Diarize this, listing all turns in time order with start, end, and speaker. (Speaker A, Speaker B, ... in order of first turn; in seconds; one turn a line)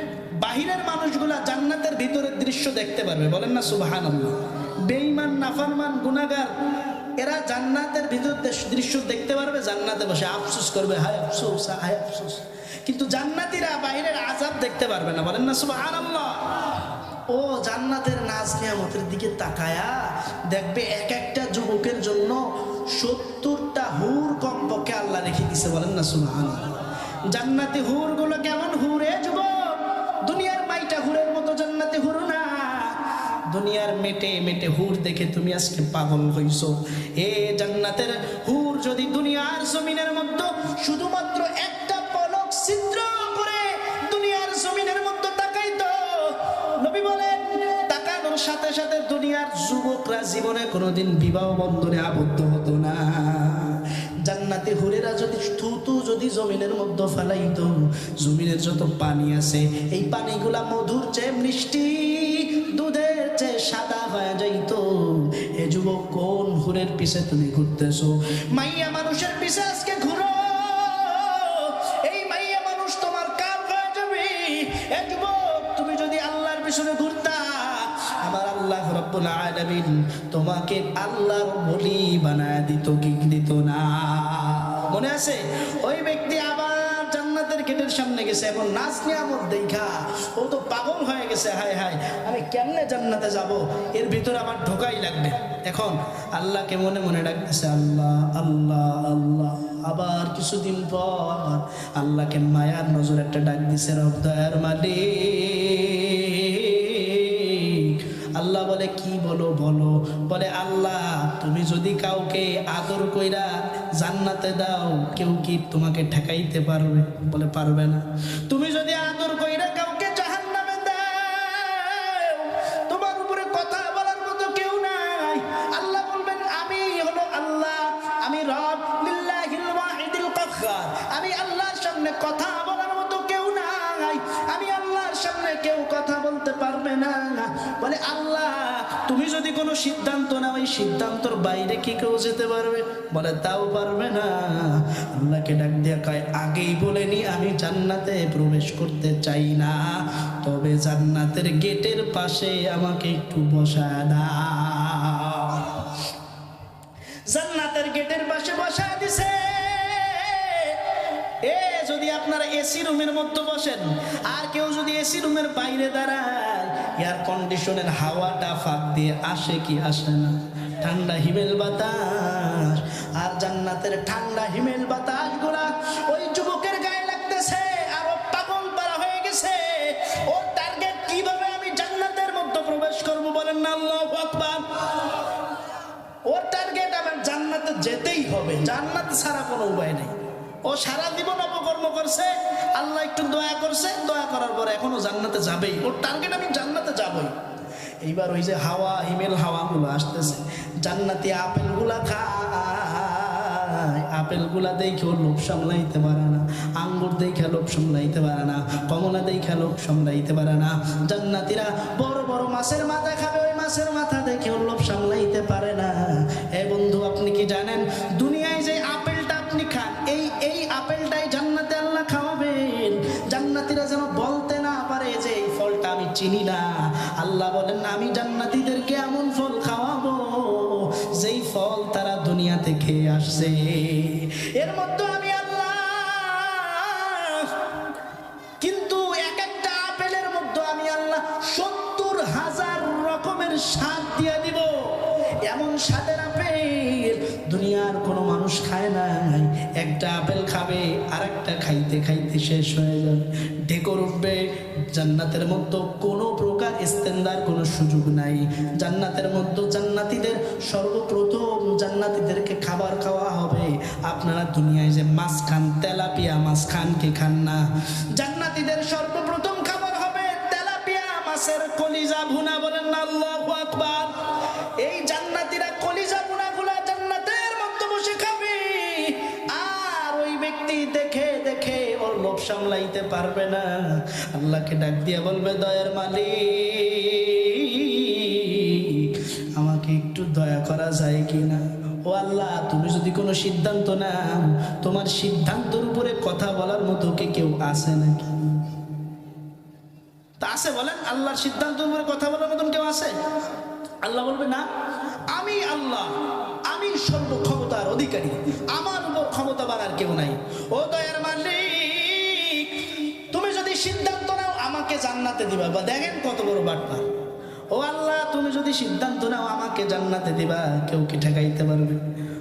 Speaker A: 0.4-6.5
Speaker A: 7.2-16.5
Speaker A: 17.3-26.8
Speaker A: 27.3-156.0
Speaker A: 157.3-184.6
Speaker A: 186.3-190.1
Speaker A: 190.7-197.3
Speaker A: 198.0-237.6
Speaker A: 238.6-267.6
Speaker A: 268.2-298.4
Speaker A: 300.4-303.1
Speaker A: 304.0-304.7
Speaker A: 305.3-306.1
Speaker A: 306.7-317.1
Speaker A: 317.7-322.0